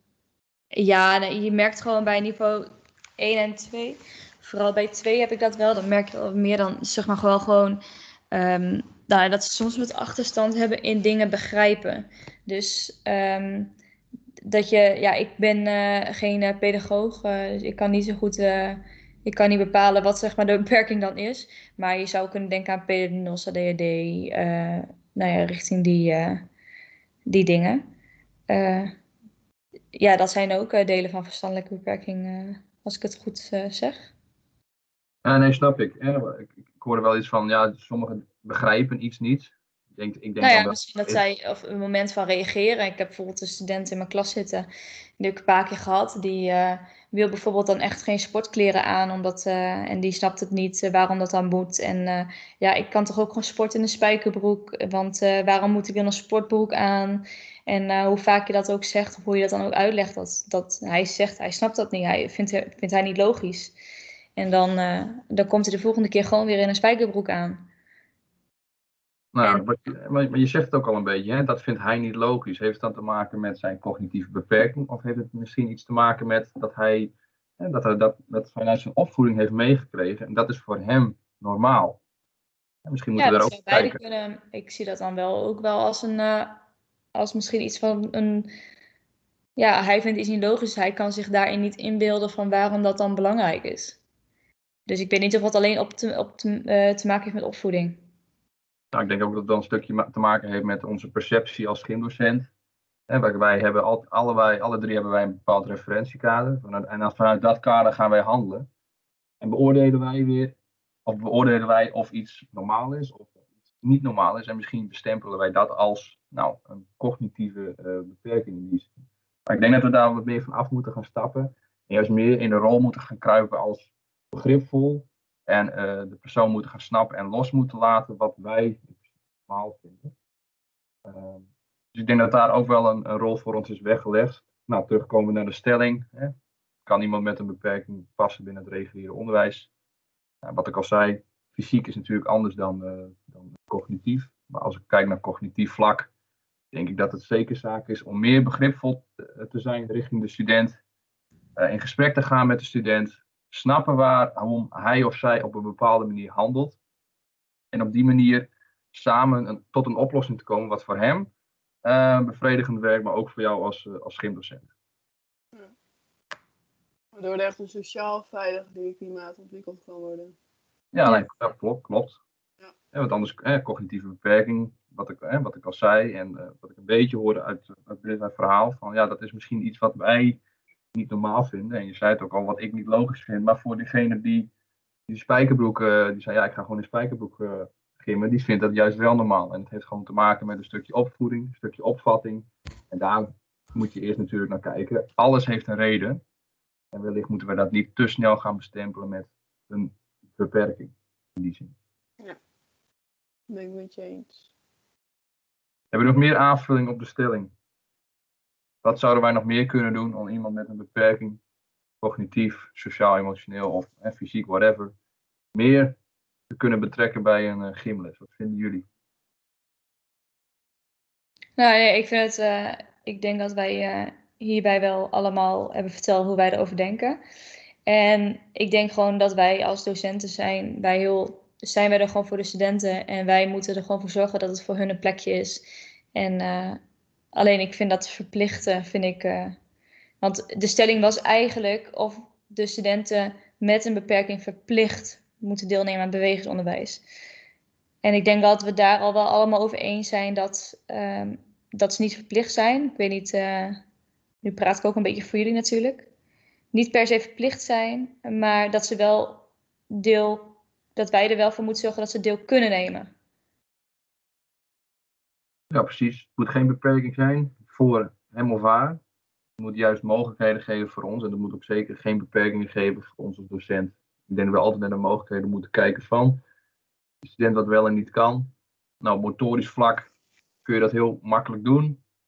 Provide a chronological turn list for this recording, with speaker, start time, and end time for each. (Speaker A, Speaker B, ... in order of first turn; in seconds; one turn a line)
Speaker A: 0.7-2.6
Speaker A: 3.2-13.7
Speaker A: 14.4-26.5
Speaker A: 27.2-27.8
Speaker A: 28.5-28.9
Speaker A: 29.9-34.1
Speaker B: 35.2-41.2
Speaker A: 40.4-44.7
Speaker A: 45.2-63.7
Speaker A: 64.3-67.7
Speaker B: 69.3-82.0
Speaker B: 82.8-84.0
Speaker A: 83.2-86.6
Speaker A: 87.1-88.5
Speaker A: 89.5-94.0
Speaker A: 94.9-98.0
Speaker B: 98.9-102.5
Speaker B: 103.1-108.7
Speaker B: 109.4-118.9
Speaker B: 119.5-128.9
Speaker B: 129.5-130.1
Speaker B: 131.1-136.3
Speaker B: 136.8-139.7
Speaker B: 140.4-146.1
Speaker B: 146.7-150.8
Speaker B: 151.6-156.8
Speaker B: 157.7-161.3
Speaker B: 161.8-164.7
Speaker C: 167.1-170.3
Speaker B: 170.9-172.2
Speaker B: 172.9-180.4
Speaker B: 180.9-184.5
Speaker B: 185.1-196.2
Speaker B: 196.9-201.7
Speaker C: 203.5-204.4
Speaker B: 205.9-207.5
Speaker B: 208.8-211.4
Speaker B: 212.0-214.9
Speaker B: 215.5-215.9
Speaker B: 216.5-218.8
Speaker A: 221.6-227.2
Speaker A: 227.8-236.8
Speaker A: 237.3-239.6
Speaker A: 240.2-247.0
Speaker A: 248.0-253.8
Speaker A: 254.4-256.1
Speaker A: 256.7-263.1
Speaker B: 265.7-269.0
Speaker B: 269.6-276.4
Speaker B: 277.2-280.1
Speaker B: 280.6-282.0